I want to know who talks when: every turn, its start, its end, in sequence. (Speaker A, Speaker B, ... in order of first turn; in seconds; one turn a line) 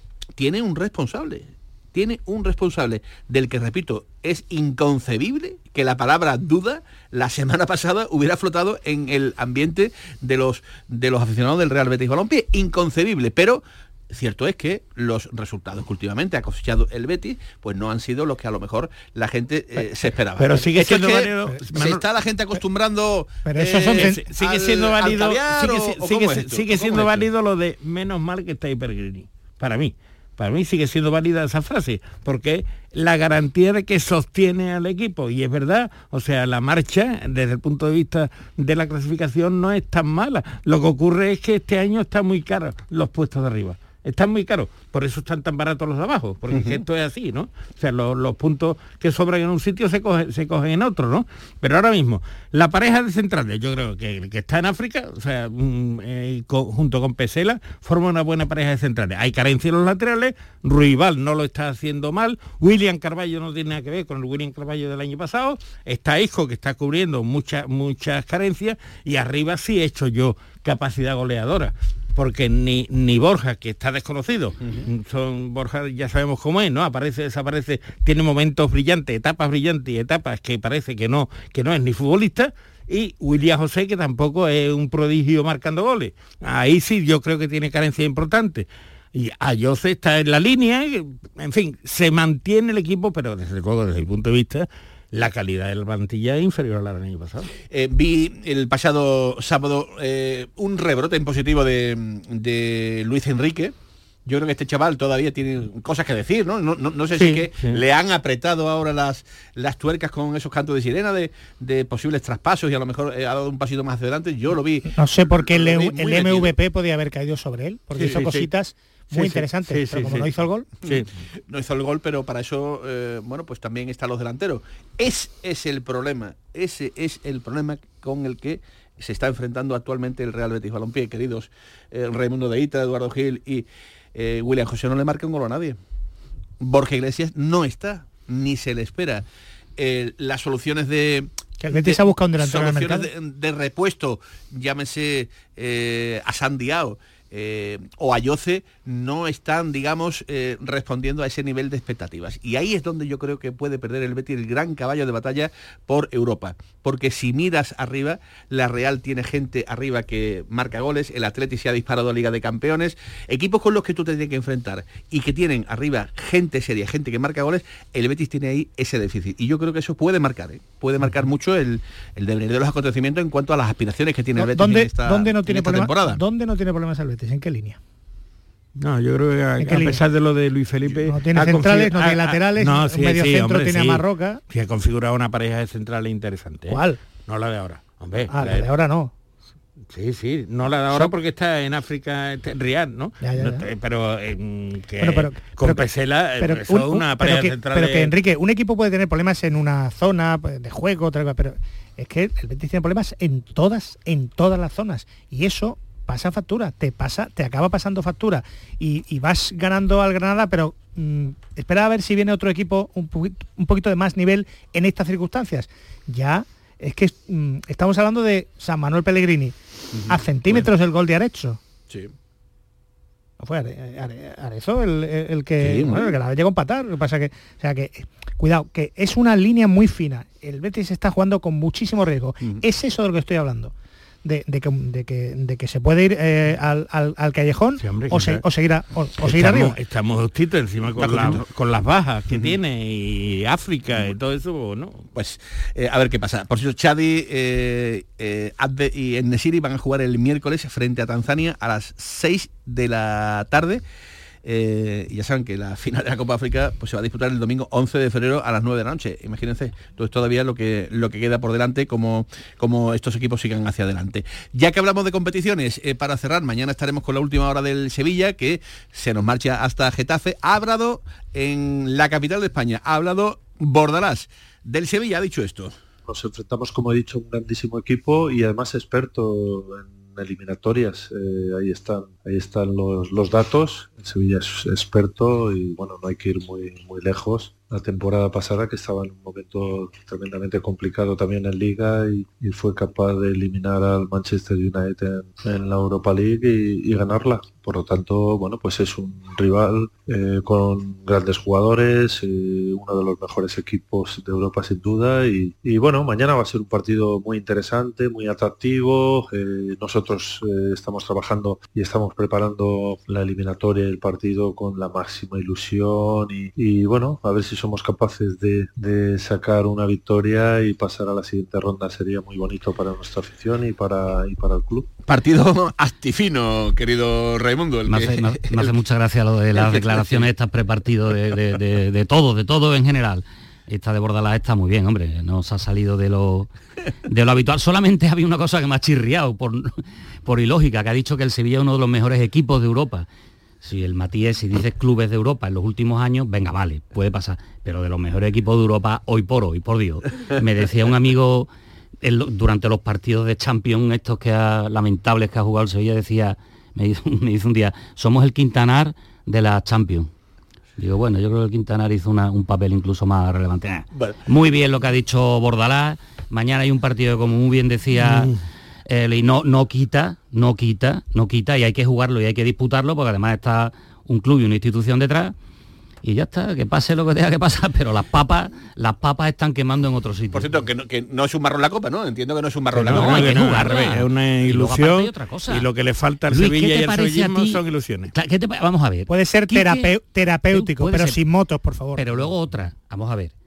Speaker A: 0.4-27.3
Speaker B: 20.4-22.0
Speaker C: 23.4-24.2
Speaker B: 23.9-97.5
Speaker A: 46.5-46.8
Speaker A: 97.7-103.7
Speaker A: 104.2-116.5
Speaker B: 107.2-107.8
Speaker C: 114.9-120.7
Speaker B: 118.0-118.5
Speaker B: 119.1-121.1
Speaker A: 121.5-135.8
Speaker A: 136.6-139.2
Speaker A: 139.8-176.2
Speaker C: 141.6-143.1
Speaker C: 174.4-177.8
Speaker B: 178.8-188.7
Speaker C: 179.6-180.0
Speaker C: 181.0-184.4
Speaker C: 186.7-187.0
Speaker C: 188.3-189.1
Speaker B: 189.9-198.1
Speaker C: 193.2-193.7
Speaker C: 195.0-195.9
Speaker C: 196.4-219.5
Speaker A: 219.9-220.7
Speaker C: 220.1-221.6
Speaker C: 223.4-233.7
Speaker A: 225.6-226.2
Speaker C: 234.2-239.8
Speaker B: 237.8-238.4
Speaker B: 239.2-245.0
Speaker A: 241.0-241.4
Speaker A: 245.1-253.8
Speaker A: 254.4-275.7
Speaker D: 276.1-324.9
Speaker A: 325.1-328.7
Speaker E: 327.9-336.5
Speaker A: 329.5-330.3
Speaker E: 337.1-343.1
Speaker E: 343.6-351.5
Speaker E: 352.0-360.1
Speaker E: 360.8-368.3
Speaker B: 367.9-368.4
Speaker E: 368.9-375.3
Speaker E: 376.0-380.5
Speaker A: 380.3-383.7
Speaker B: 382.7-388.1
Speaker E: 382.8-385.7
Speaker E: 386.3-389.9
Speaker C: 389.1-392.0
Speaker E: 390.5-391.2
Speaker E: 391.9-393.3